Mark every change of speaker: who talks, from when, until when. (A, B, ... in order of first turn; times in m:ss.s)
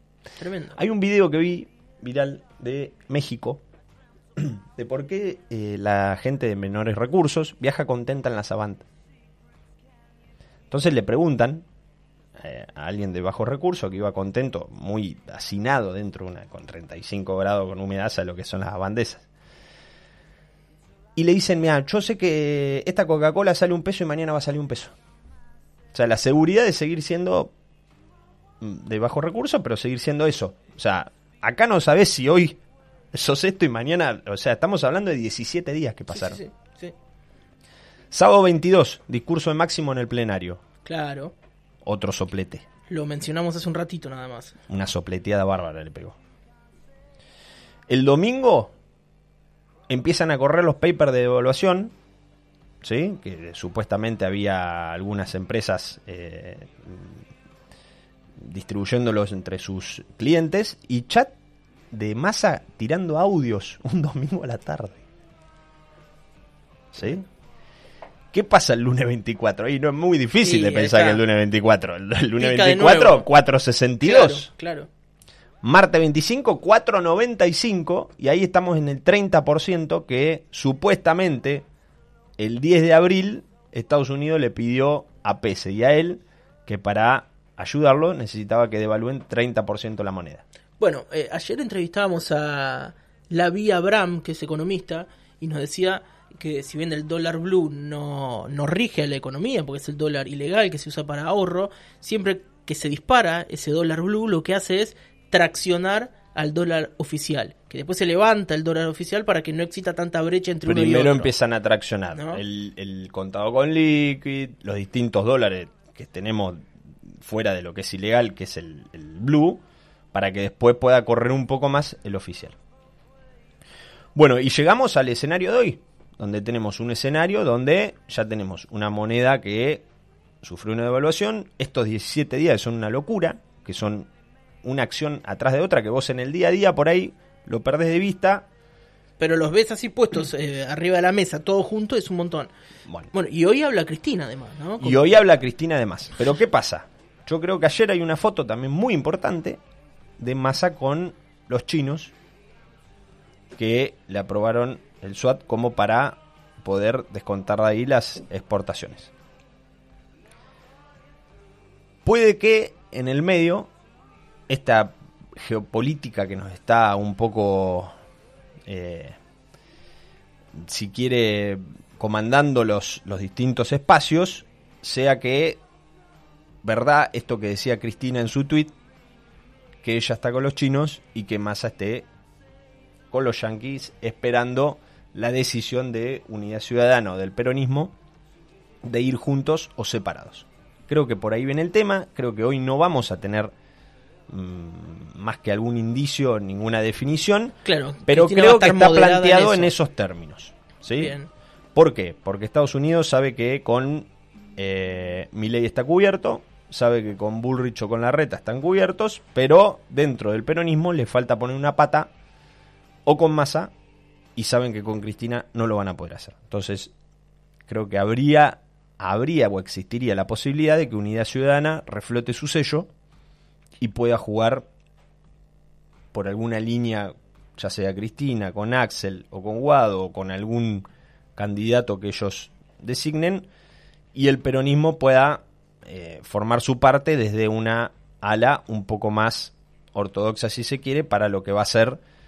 0:00.4-0:00.8 A
0:00.7-0:03.6 B
0:04.4-0:08.8 B
0:10.7-0:11.6 B
0:12.4-0:19.2 B
0:21.2-0:24.9 B
0:25.9-0:27.5 B
0:28.6-0:32.6 B
0:33.1-0:36.4 B
0:36.1-0:36.9 A
0:38.1-0:40.6 B
0:40.8-0:41.3 A
0:41.8-0:42.6 B
0:42.9-0:44.6 A
0:44.7-0:46.2 B
0:47.9-0:48.7 B
0:49.9-0:51.9 B
0:52.8-0:57.2 B
0:58.4-1:01.3 B
1:01.9-1:05.0 B
1:06.9-1:07.2 B
1:08.3-1:14.5 B
1:10.4-1:11.2 A
1:12.4-1:13.2 A
1:14.0-1:14.9 A
1:15.6-1:21.6 B
1:22.4-1:30.4 B
1:30.8-1:51.3 A
1:50.6-2:02.6 B
1:52.1-1:52.4 A
2:04.1-2:09.8 B
2:10.4-2:14.1 B
2:14.6-2:18.4 B
2:19.2-2:22.5 A
2:23.1-2:25.2 A
2:24.8-2:29.6 B
2:30.2-2:32.1 B
2:33.6-2:39.1 B
2:42.0-2:43.7 B
2:44.5-2:47.9 B
2:48.6-2:49.2 B
2:50.5-2:55.6 B
2:56.6-2:58.7 B
2:59.8-3:02.1 B
3:03.1-3:07.9 B
3:08.8-3:13.5 B
3:14.3-3:21.2 B
3:17.6-3:19.7 A
3:21.0-3:21.3 A
3:21.7-3:32.1 B
3:33.0-3:33.7 B
3:34.4-3:36.9 B
3:37.7-3:42.9 B
3:43.8-3:44.7 B
3:46.1-3:53.5 B
3:54.1-4:02.0 B